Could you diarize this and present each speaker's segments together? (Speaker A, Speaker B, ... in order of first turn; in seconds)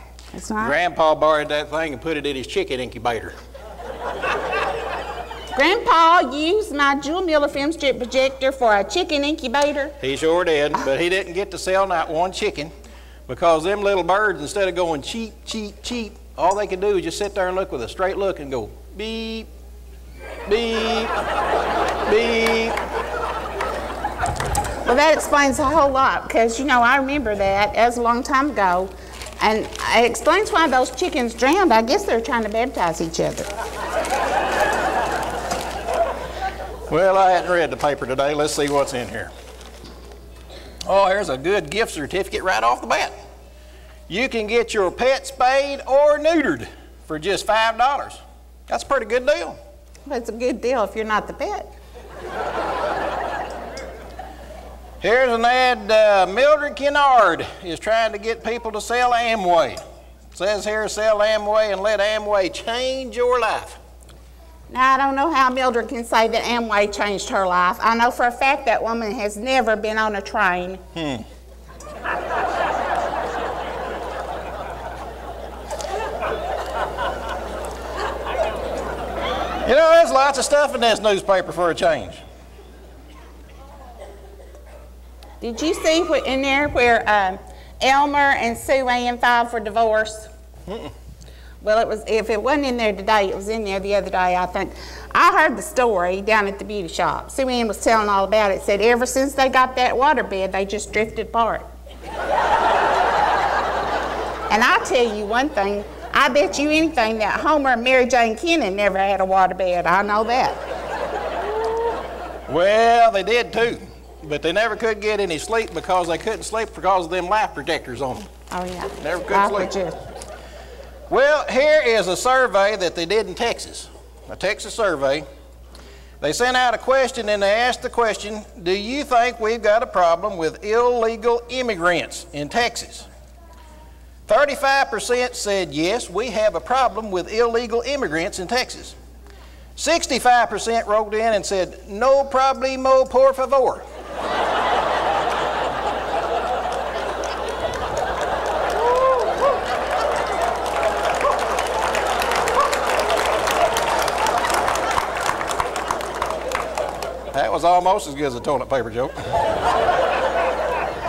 Speaker A: 0.3-0.8, 5.5-9.9, 24.8-33.5, 50.1-51.7, 64.7-70.8, 85.4-90.3, 91.6-101.7, 104.5-110.6, 118.5-120.0
Speaker B: 0.6-3.3, 10.0-12.7, 13.3-19.5, 20.4-21.1, 22.1-22.7, 36.9-39.3, 40.8-43.1, 44.1-49.6, 55.0-59.8, 60.3-63.8, 71.0-71.2, 79.6-82.2, 112.5-118.3, 119.0-119.7, 121.1-125.2, 126.2-133.1, 134.3-138.9, 139.8-143.8, 157.3-159.1